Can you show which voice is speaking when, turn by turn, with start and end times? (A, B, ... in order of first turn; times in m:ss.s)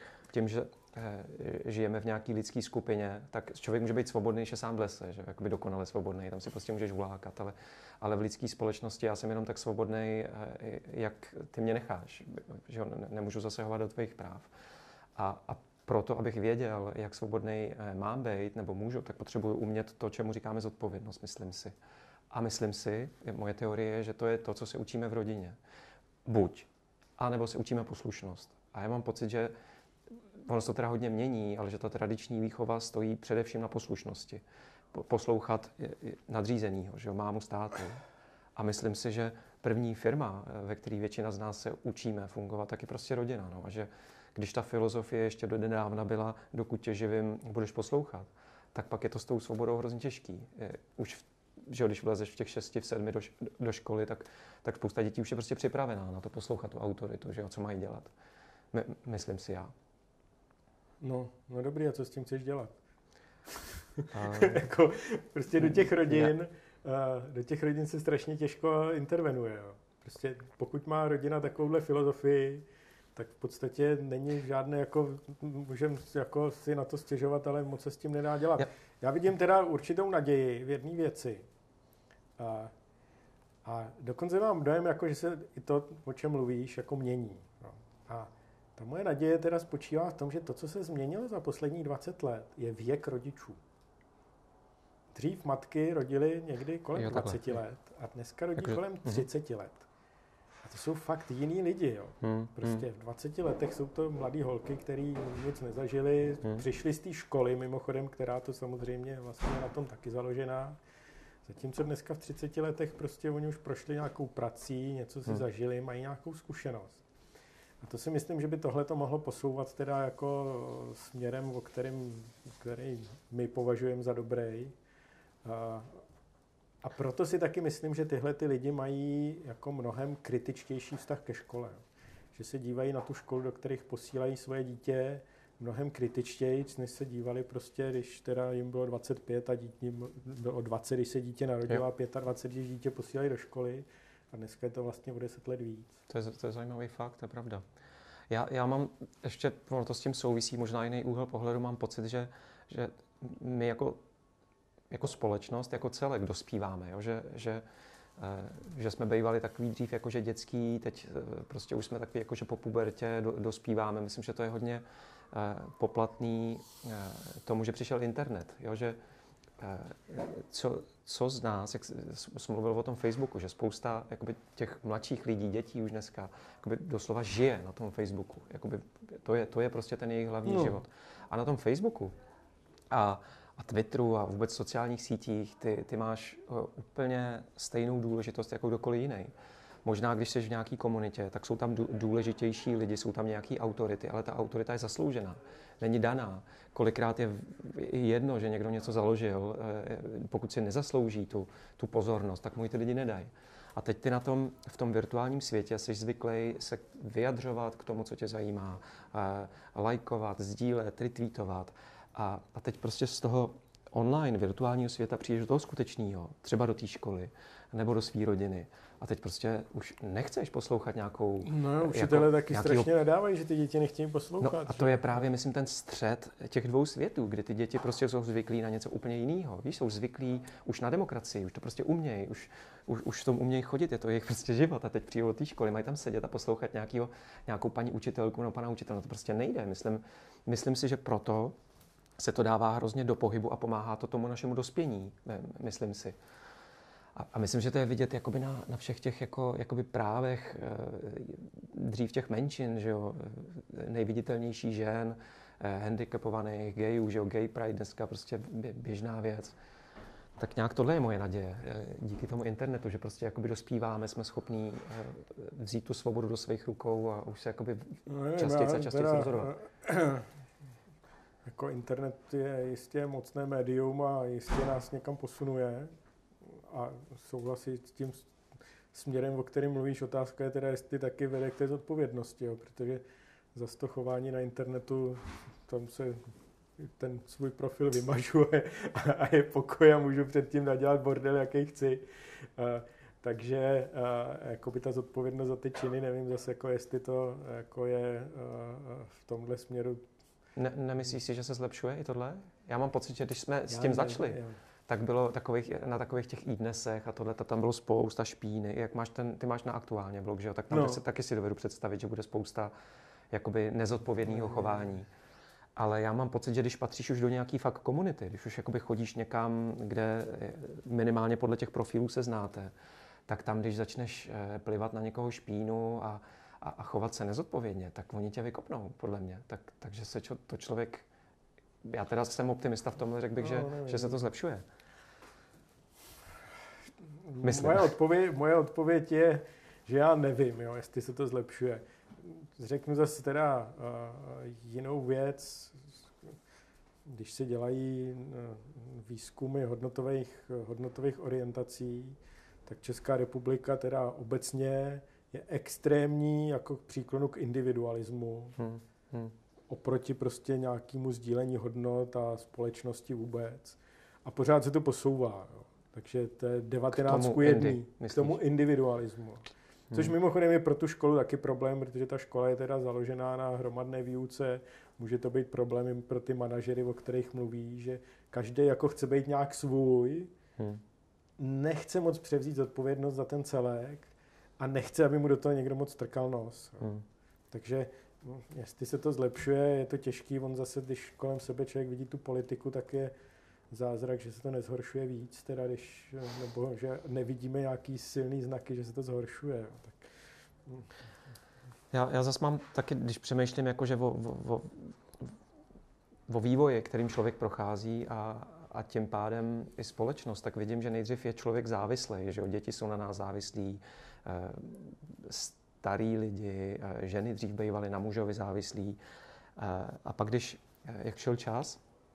0:00.3-0:14.5 A
0:15.2-0:21.7 A
0:22.3-0:25.6 A
0:26.2-0:29.5 A
0:30.4-0:34.4 A
0:34.9-0:38.0 A
0:38.6-0:58.1 A
0:58.7-0:59.7 A
1:01.0-1:02.7 B
1:03.6-1:21.4 B
1:04.1-1:04.6 A
1:05.6-1:06.3 A
1:22.4-1:22.7 B
1:23.6-1:33.6 B
1:35.1-1:39.8 B
1:36.9-1:37.6 A
1:38.6-1:39.3 A
1:40.6-1:50.8 B
1:42.2-1:42.8 A
1:51.4-1:57.0 B
1:57.8-2:04.7 B
2:05.4-2:06.0 B
2:06.8-2:11.8 B
2:12.3-2:25.9 B
2:26.1-2:27.6 A
2:28.3-2:34.0 A
2:34.9-2:37.6 A
2:38.2-2:49.0 A
2:49.6-3:02.1 A
3:00.4-3:00.8 B
3:02.9-3:09.3 A
3:09.8-3:42.9 A
3:41.4-3:45.2 B
3:44.4-4:01.5 A
4:02.2-4:06.2 A
4:07.2-4:19.5 A
4:20.4-4:29.5 A
4:28.1-4:30.3 B
4:31.4-4:35.9 B
4:36.4-4:38.2 B
4:38.9-4:46.3 B
4:46.8-5:00.0 B
5:00.6-5:12.7 A
5:03.7-5:04.6 B
5:10.7-5:11.0 B
5:13.3-5:15.1 A
5:14.3-5:14.9 B
5:15.8-5:22.7 A
5:23.3-5:31.0 A
5:31.8-5:34.6 A
5:33.4-5:34.2 B
5:37.2-5:45.9 B
5:37.4-5:37.9 A
5:47.1-5:58.6 B
5:58.6-5:59.3 A
5:59.7-6:20.3 B
6:06.9-6:08.4 A
6:21.4-6:26.8 B
6:27.5-6:33.1 B
6:33.7-6:40.0 B
6:41.9-6:44.9 A
6:46.3-6:59.0 A
6:59.6-7:01.8 A